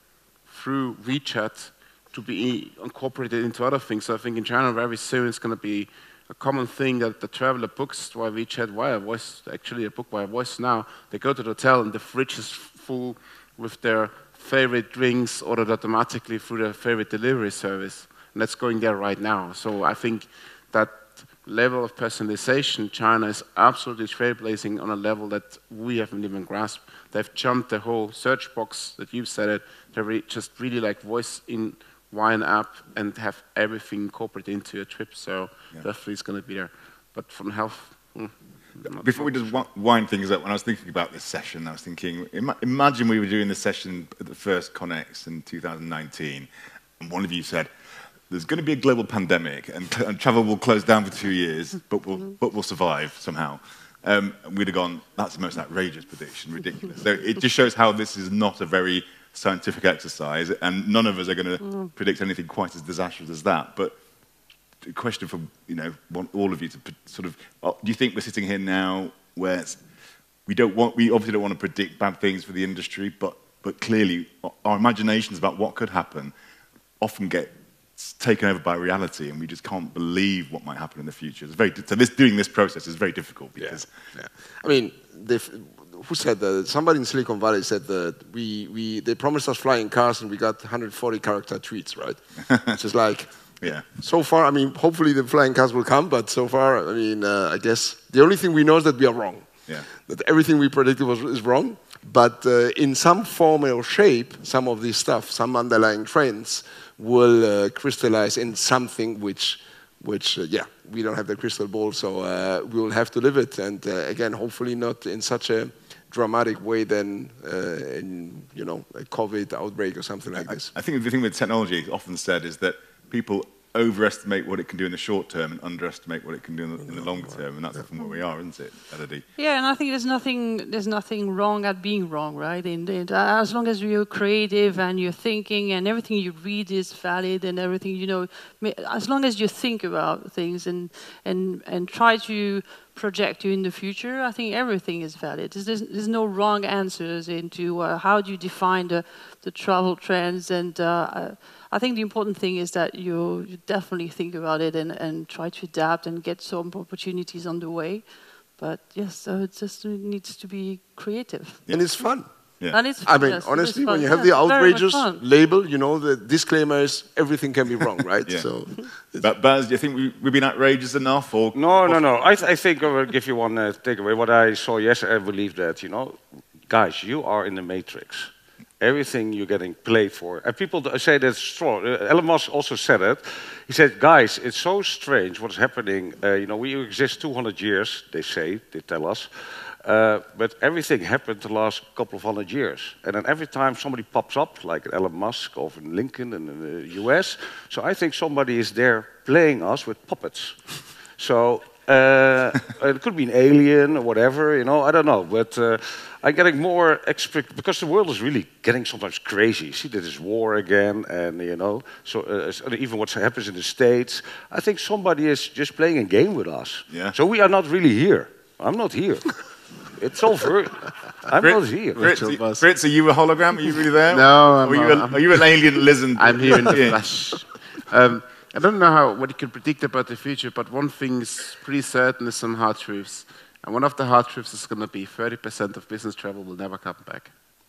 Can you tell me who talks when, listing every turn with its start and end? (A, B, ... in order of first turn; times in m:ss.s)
0:00.5-0:39.5 A
0:39.0-0:46.5 B
0:47.0-0:47.7 B
0:48.3-1:04.0 B
1:04.8-1:09.8 B
1:10.5-1:16.3 B
1:17.0-1:23.9 B
1:23.6-1:33.3 C
1:32.4-1:32.8 B
1:33.9-2:00.7 C
2:00.7-2:09.2 B
2:09.4-2:38.1 D
2:38.6-2:41.6 D
2:41.7-2:42.3 C
2:42.7-2:45.2 D
2:43.1-2:49.3 C
2:49.2-2:52.0 B
2:51.6-3:42.1 E
3:36.9-3:37.2 B
3:41.4-3:47.0 B
3:42.0-3:42.7 A
3:44.1-3:45.4 A
3:46.2-3:57.3 A